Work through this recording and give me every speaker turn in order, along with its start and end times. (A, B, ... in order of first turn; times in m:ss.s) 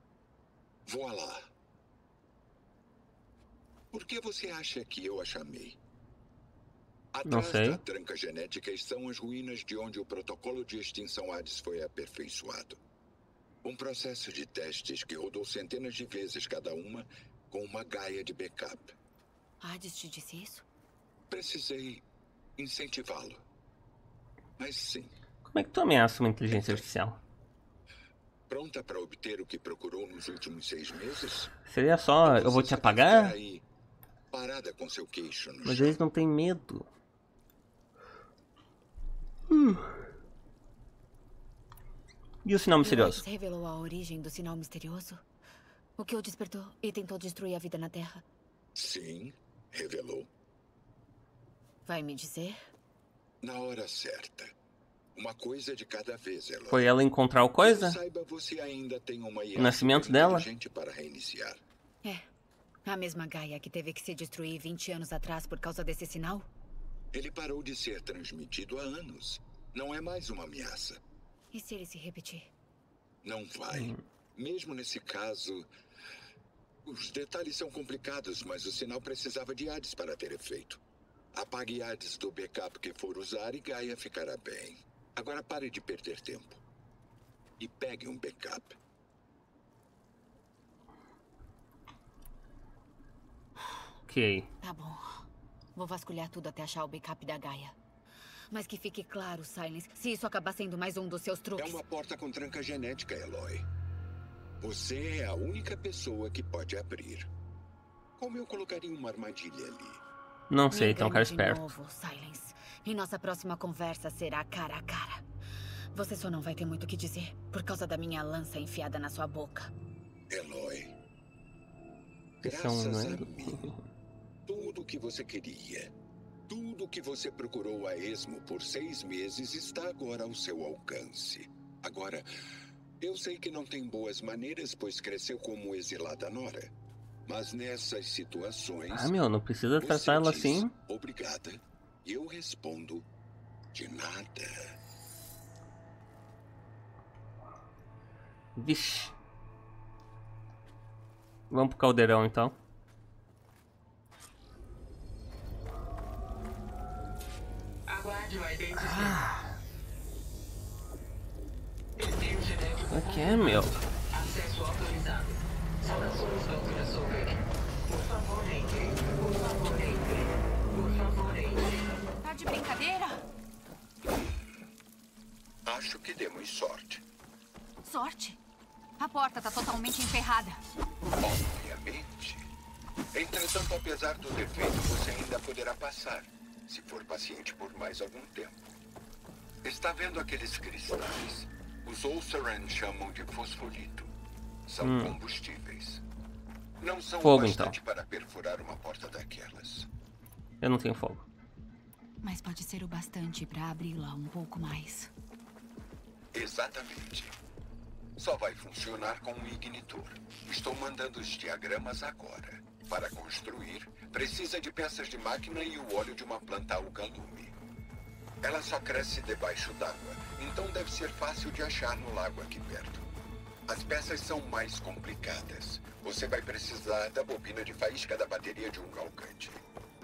0:00.8-0:01.5 A
0:03.9-0:05.8 A
0:07.1-0:12.8 A
0:07.2-0:07.8 B
0:13.6-0:18.9 A
0:19.6-0:20.6 C
0:21.3-0:22.0 A
0:22.6-0:23.4 A
0:24.6-0:25.1 A
0:25.4-0:27.2 B
0:26.5-0:26.8 A
0:28.5-0:31.5 A
0:31.6-0:33.3 B
0:32.2-0:33.6 A
0:34.3-0:36.0 A
0:35.6-0:36.9 B
0:39.5-0:40.0 B
0:42.4-0:43.2 B
0:42.8-0:45.2 C
0:46.0-0:48.2 C
0:48.7-0:50.3 A
0:51.8-0:52.6 C
0:53.4-0:54.5 A
0:55.1-0:56.9 A
0:56.7-0:58.0 B
0:57.6-1:01.6 A
0:59.6-1:00.5 B
1:02.8-1:06.5 C
1:07.1-1:11.0 A
1:11.5-1:12.5 C
1:13.2-1:15.7 A
1:13.7-1:14.0 B
1:16.8-1:20.8 A
1:21.3-1:26.6 A
1:27.6-1:28.8 A
1:34.1-1:34.5 B
1:34.6-1:37.8 C
1:38.5-1:41.8 C
1:41.6-1:43.7 A
1:44.6-1:47.3 A
1:48.2-1:50.0 A
1:50.5-1:51.7 B
1:50.7-1:55.2 C
1:55.9-1:59.7 C
2:00.3-2:00.9 A
2:02.4-2:03.7 A
2:02.4-2:03.8 B
2:04.5-2:05.9 A
2:06.5-2:12.3 A
2:13.0-2:16.7 A
2:17.3-2:19.1 A
2:18.9-2:20.7 B
2:19.8-2:23.0 A
2:23.7-2:24.7 A
2:28.6-2:29.1 B
2:31.5-2:32.6 B
2:37.9-2:39.2 D
2:38.8-2:39.5 B
2:42.0-2:52.0 D
2:42.9-2:43.7 B
2:52.2-2:53.2 C
2:55.6-2:57.0 A
2:57.8-2:58.4 C
2:59.0-3:00.6 C
3:01.2-3:02.5 A
3:03.1-3:08.7 A
3:09.6-3:14.1 A
3:14.6-3:16.0 A
3:14.8-3:15.2 B
3:16.8-3:19.9 A
3:17.2-3:17.8 B
3:20.6-3:21.2 B
3:22.2-3:25.1 C
3:26.3-3:27.3 A
3:28.2-3:37.5 A
3:38.4-3:43.0 A
3:43.7-3:49.6 A